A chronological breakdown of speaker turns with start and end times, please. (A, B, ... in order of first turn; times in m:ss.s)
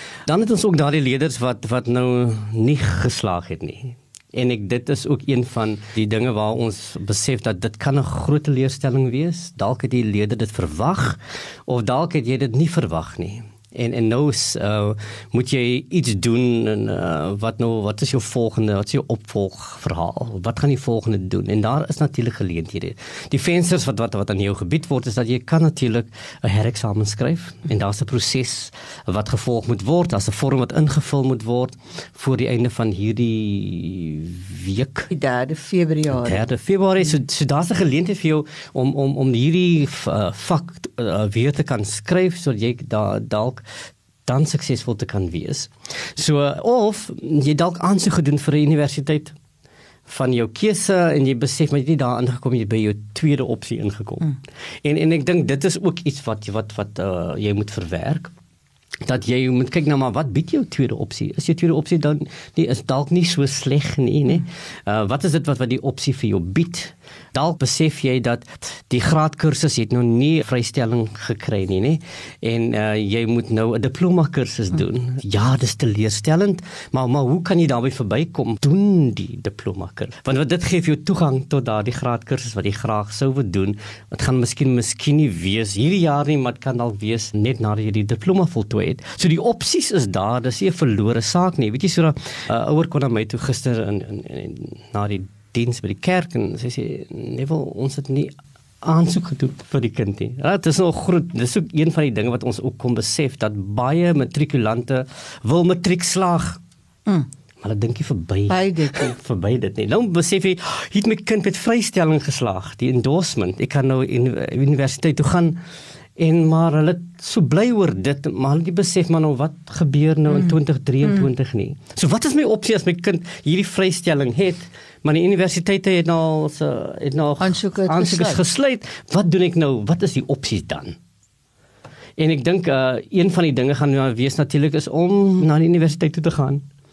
0:00.3-0:35.1 A
0:35.1-0:36.4 B
0:36.1-0:43.6 A
0:44.3-0:49.4 A
0:50.1-0:58.3 A
0:59.0-1:46.6 A
1:47.6-1:55.6 A
1:48.5-1:49.1 B
1:56.2-2:11.0 A
2:07.4-2:08.4 B
2:12.2-2:16.6 A